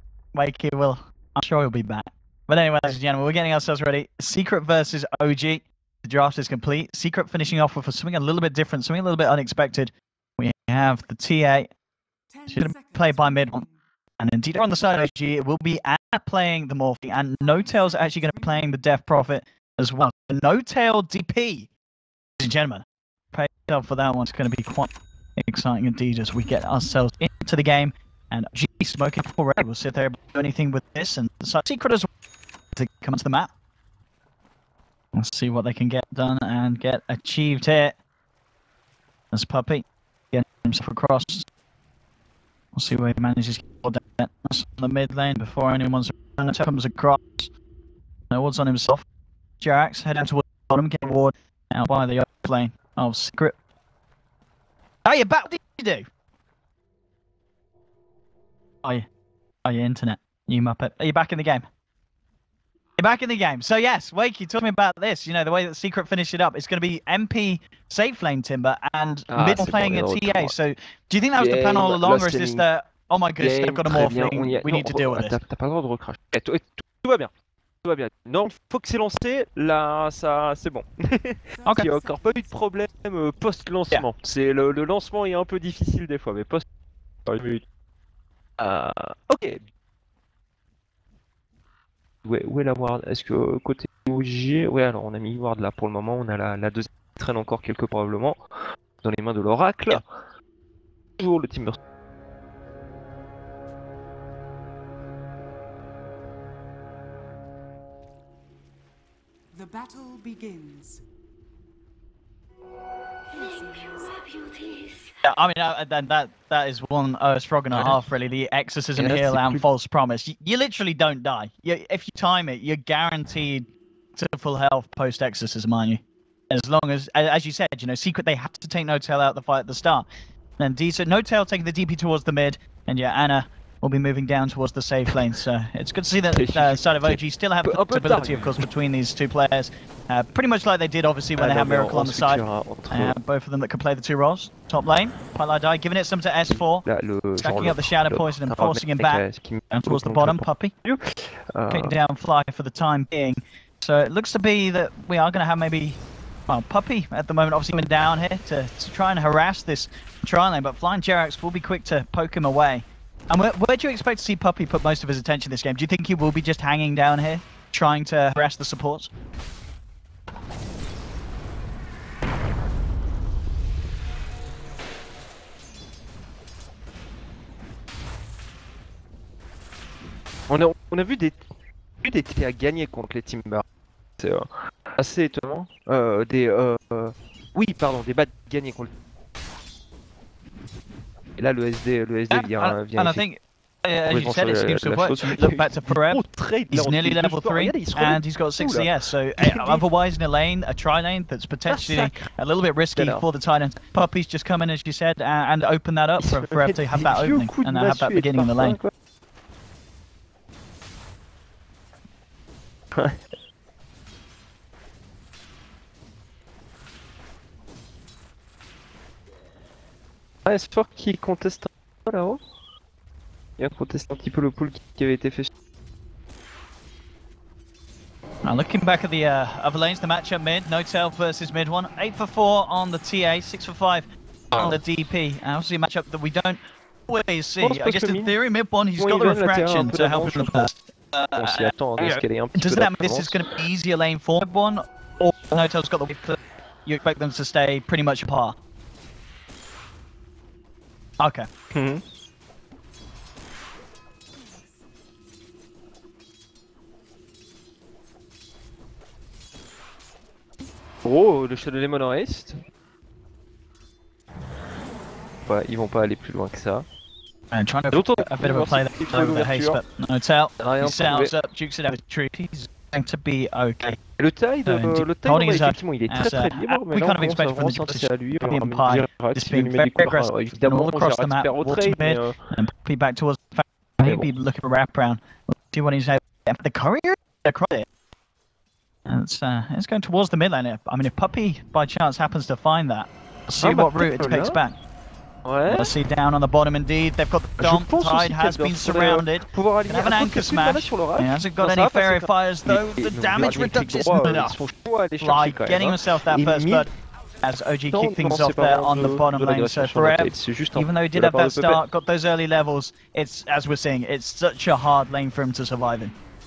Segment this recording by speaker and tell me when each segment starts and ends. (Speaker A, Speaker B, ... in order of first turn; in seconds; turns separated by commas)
Speaker A: 0.3-11.7, Speaker B: 12.3-13.8, Speaker A: 12.5-13.7, Speaker A: 14.2-21.7, Speaker B: 17.4-18.7, Speaker A: 22.4-32.1, Speaker A: 32.8-33.5, Speaker A: 35.1-38.0, Speaker A: 39.3-41.5, Speaker A: 42.7-47.5, Speaker A: 48.3-49.0, Speaker A: 49.6-53.6, Speaker A: 55.0-56.1, Speaker A: 59.6-61.7, Speaker A: 63.0-75.4, Speaker C: 69.3-70.5, Speaker C: 71.4-72.7, Speaker C: 73.4-77.3, Speaker C: 77.8-86.7, Speaker B: 81.6-82.8, Speaker C: 87.3-87.6, Speaker C: 88.6-89.6, Speaker C: 92.2-98.4, Speaker C: 99.0-100.0, Speaker C: 101.2-101.8, Speaker B: 109.5-111.0, Speaker B: 113.3-114.9, Speaker A: 115.2-130.1, Speaker C: 117.7-118.0, Speaker C: 119.0-119.6, Speaker A: 130.6-146.9, Speaker C: 136.3-138.6, Speaker C: 141.4-143.2, Speaker C: 146.5-152.0, Speaker A: 147.4-150.7, Speaker A: 151.7-169.1, Speaker C: 180.5-181.5, Speaker C: 182.0-183.6, Speaker C: 184.2-188.9, Speaker C: 191.4-193.2, Speaker A: 192.3-208.8, Speaker C: 194.1-199.8, Speaker C: 201.7-202.2, Speaker C: 202.9-203.2, Speaker C: 206.2-208.9, Speaker C: 212.9-213.2, Speaker C: 220.4-222.4, Speaker C: 223.6-225.5, Speaker A: 228.4-248.6, Speaker C: 234.5-234.8, Speaker C: 237.6-238.3, Speaker C: 239.0-240.7, Speaker C: 241.4-243.5, Speaker A: 251.2-251.5, Speaker C: 251.7-252.0, Speaker C: 261.0-262.6, Speaker C: 265.4-266.9, Speaker A: 267.5-274.0, Speaker C: 267.9-269.8, Speaker C: 270.6-271.3, Speaker C: 274.2-282.5, Speaker A: 274.7-287.9, Speaker A: 289.1-294.8, Speaker C: 293.6-294.6, Speaker C: 295.4-295.9, Speaker A: 295.7-304.6, Speaker C: 297.6-306.9, Speaker A: 305.2-306.9, Speaker A: 307.4-316.1, Speaker C: 307.9-311.8